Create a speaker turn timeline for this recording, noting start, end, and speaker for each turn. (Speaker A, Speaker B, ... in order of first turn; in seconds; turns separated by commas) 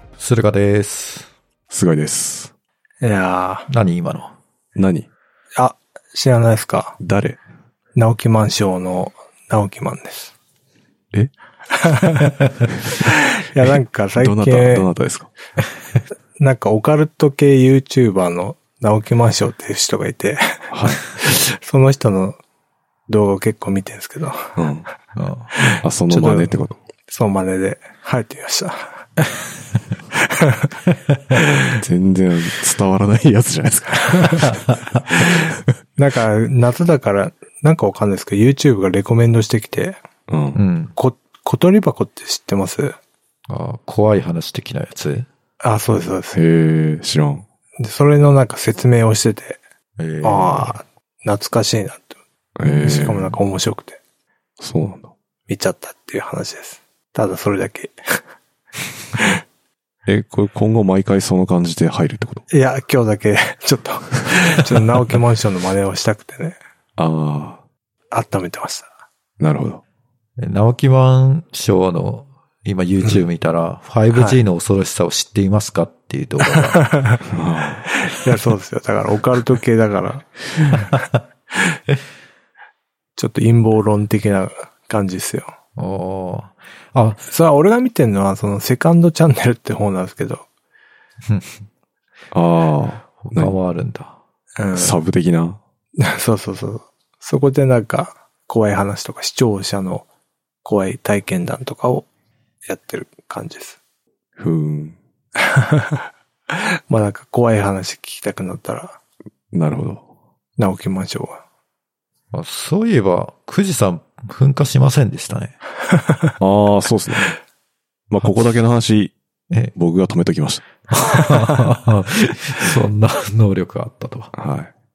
Speaker A: 0.2-1.3, Speaker B: 1.7-2.5, Speaker C: 3.0-3.7, Speaker A: 3.7-4.3, Speaker B: 4.7-5.1, Speaker C: 5.6-7.0, Speaker B: 7.0-7.4, Speaker C: 8.0-10.3, Speaker C: 11.7-12.3, Speaker C: 12.9-14.9, Speaker B: 14.2-15.3, Speaker C: 16.4-22.4, Speaker B: 20.7-21.2, Speaker C: 23.1-24.6, Speaker B: 24.6-24.9, Speaker A: 25.1-25.5, Speaker C: 25.6-26.6, Speaker B: 25.8-26.8, Speaker C: 27.1-29.1, Speaker C: 30.4-30.7, Speaker A: 31.1-31.4, Speaker B: 31.3-35.7, Speaker A: 34.5-35.0, Speaker C: 36.0-40.0, Speaker B: 40.3-40.6, Speaker A: 40.5-40.9, Speaker C: 40.9-43.0, Speaker A: 43.5-45.3, Speaker C: 45.6-46.4, Speaker B: 46.3-47.4, Speaker C: 47.8-49.6, Speaker A: 50.0-50.8, Speaker C: 50.2-52.2, Speaker B: 52.5-53.3, Speaker A: 52.6-53.0, Speaker C: 52.8-54.0, Speaker B: 54.6-55.1, Speaker C: 55.5-58.2, Speaker B: 60.0-62.5, Speaker C: 62.5-66.6, Speaker B: 67.0-67.6, Speaker C: 68.1-68.9, Speaker B: 69.4-69.8, Speaker A: 70.4-76.8, Speaker C: 74.1-74.4, Speaker C: 76.5-77.2, Speaker B: 77.2-77.9, Speaker C: 77.9-80.9, Speaker C: 83.2-85.5, Speaker A: 85.8-87.2, Speaker C: 87.2-90.4, Speaker A: 91.2-91.6, Speaker B: 92.3-93.5, Speaker A: 93.2-94.2, Speaker C: 94.6-95.0, Speaker B: 94.7-95.6, Speaker C: 96.0-100.0, Speaker C: 100.6-102.1, Speaker C: 102.7-103.8, Speaker B: 104.4-105.0, Speaker C: 105.5-109.0, Speaker B: 109.5-110.0, Speaker C: 110.6-111.4, Speaker A: 112.3-115.5, Speaker C: 116.0-116.3, Speaker B: 116.4-117.3, Speaker B: 118.1-119.1, Speaker B: 119.7-120.8, Speaker A: 120.9-124.3, Speaker B: 124.3-124.7